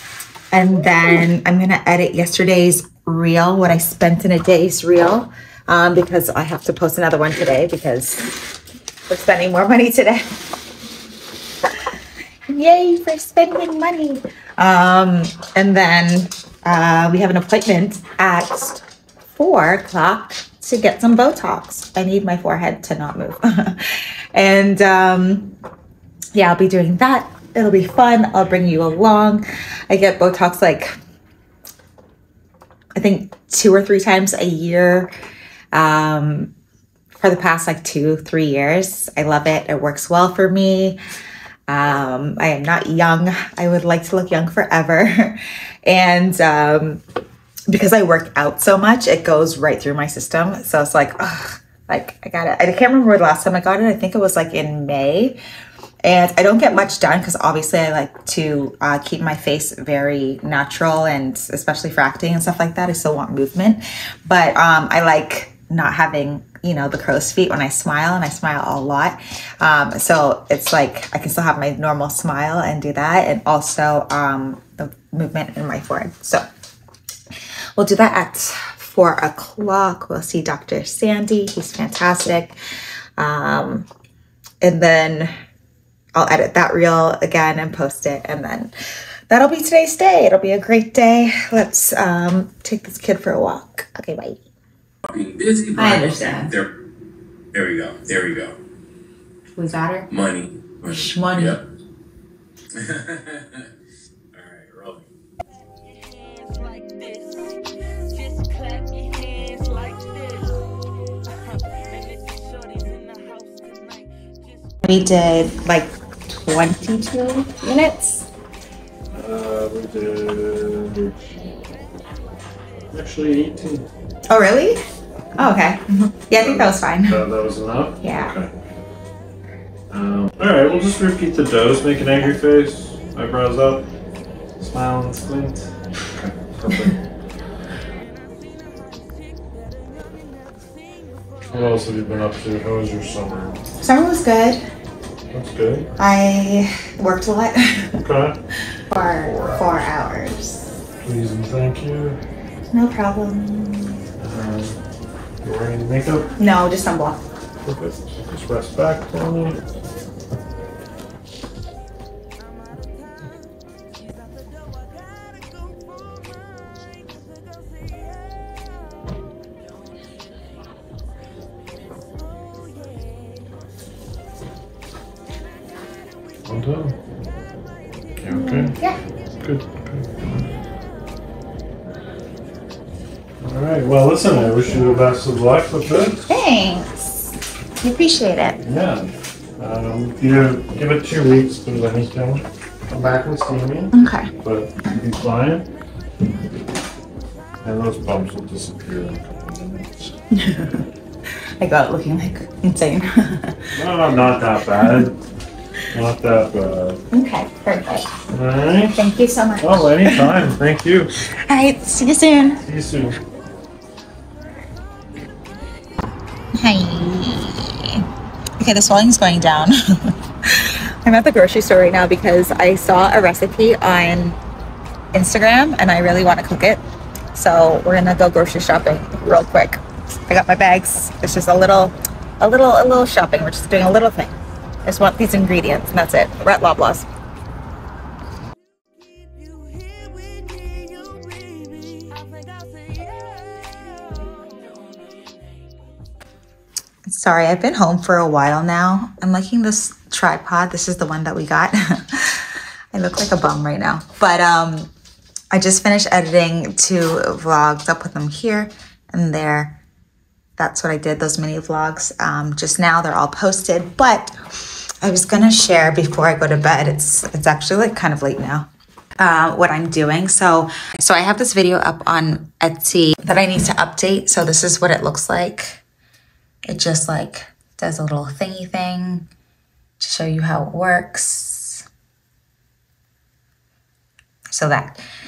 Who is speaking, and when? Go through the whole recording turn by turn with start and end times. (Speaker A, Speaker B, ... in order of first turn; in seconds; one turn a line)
Speaker A: 0.5-8.5
Speaker A: 9.1-10.2
Speaker A: 12.5-25.6
Speaker A: 26.3-30.9
Speaker A: 33.0-35.1
Speaker A: 35.7-36.5
Speaker A: 37.1-41.0
Speaker A: 41.7-47.0
Speaker A: 47.7-55.4
Speaker A: 56.0-76.5
Speaker A: 77.8-82.6
Speaker A: 83.2-83.9
Speaker A: 84.6-85.3
Speaker A: 86.2-88.7
Speaker A: 89.3-94.4
Speaker B: 95.1-96.7
Speaker A: 95.8-96.6
Speaker B: 97.5-98.6
Speaker A: 99.5-100.1
Speaker B: 100.1-101.6
Speaker A: 100.8-101.6
Speaker B: 102.8-103.6
Speaker B: 104.3-105.1
Speaker C: 106.0-110.8
Speaker C: 111.4-114.7
Speaker A: 114.8-118.3
Speaker D: 119.1-121.3
Speaker D: 122.9-123.9
Speaker A: 124.3-124.8
Speaker A: 125.4-127.2
Speaker D: 126.4-128.5
Speaker A: 128.0-128.3
Speaker D: 129.9-133.9
Speaker D: 134.6-137.0
Speaker D: 141.5-143.7
Speaker A: 143.8-144.6
Speaker D: 145.3-145.9
Speaker A: 146.0-147.9
Speaker D: 148.0-148.4
Speaker A: 148.9-150.7
Speaker D: 149.2-149.9
Speaker D: 151.0-152.2
Speaker A: 152.7-154.1
Speaker D: 154.2-154.8
Speaker D: 155.4-156.3
Speaker A: 156.4-157.2
Speaker D: 157.6-159.6
Speaker D: 176.4-177.0
Speaker D: 178.2-178.8
Speaker A: 178.3-179.0
Speaker D: 179.4-180.1
Speaker D: 183.4-186.3
Speaker A: 186.1-188.6
Speaker D: 188.7-195.7
Speaker A: 193.9-194.3
Speaker D: 197.6-200.2
Speaker A: 200.3-200.8
Speaker A: 201.6-203.7
Speaker D: 203.8-205.2
Speaker D: 205.9-207.0
Speaker A: 207.1-208.1
Speaker D: 208.3-209.0
Speaker A: 208.9-210.4
Speaker D: 209.6-211.1
Speaker A: 211.3-212.6
Speaker D: 212.7-213.2
Speaker A: 216.6-218.1
Speaker A: 218.6-224.4
Speaker A: 225.1-226.8
Speaker A: 227.3-237.1
Speaker C: 239.3-245.8
Speaker A: 247.1-254.9
Speaker A: 255.5-259.8
Speaker A: 260.6-264.3
Speaker A: 265.0-268.7
Speaker A: 269.2-275.8
Speaker A: 276.7-279.3
Speaker A: 280.0-281.9
Speaker A: 284.5-285.1